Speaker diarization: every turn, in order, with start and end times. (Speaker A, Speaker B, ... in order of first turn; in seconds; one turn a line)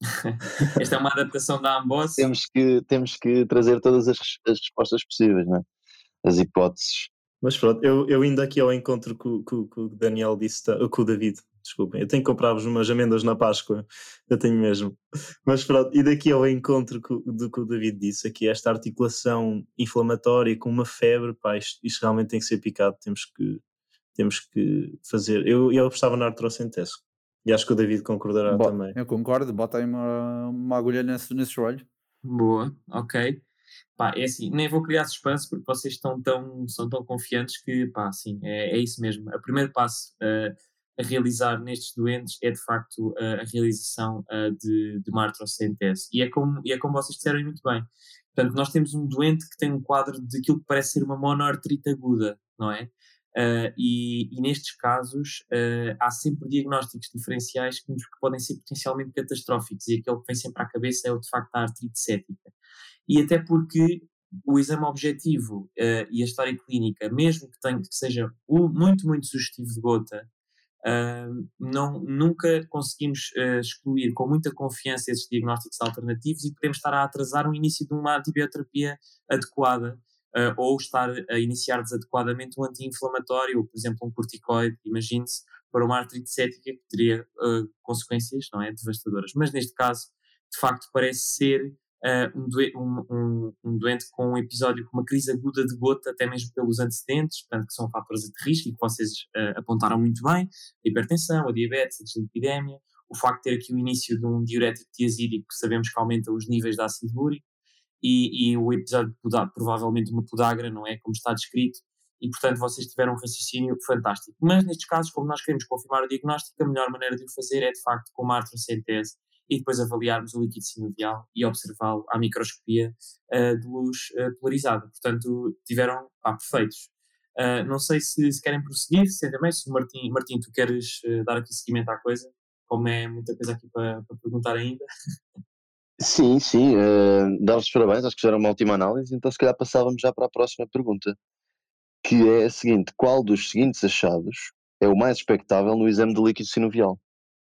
Speaker A: 0.2-2.3
Speaker B: 2.2-5.6
Speaker B: 6.2-7.1
Speaker C: 7.4-23.6
Speaker C: 24.1-28.9
Speaker D: 28.4-31.9
Speaker A: 32.2-33.4
Speaker A: 34.0-62.5
Speaker A: 63.1-70.3
Speaker A: 70.8-107.4
Speaker A: 108.0-134.8
Speaker B: 136.0-141.2
Speaker B: 142.0-147.0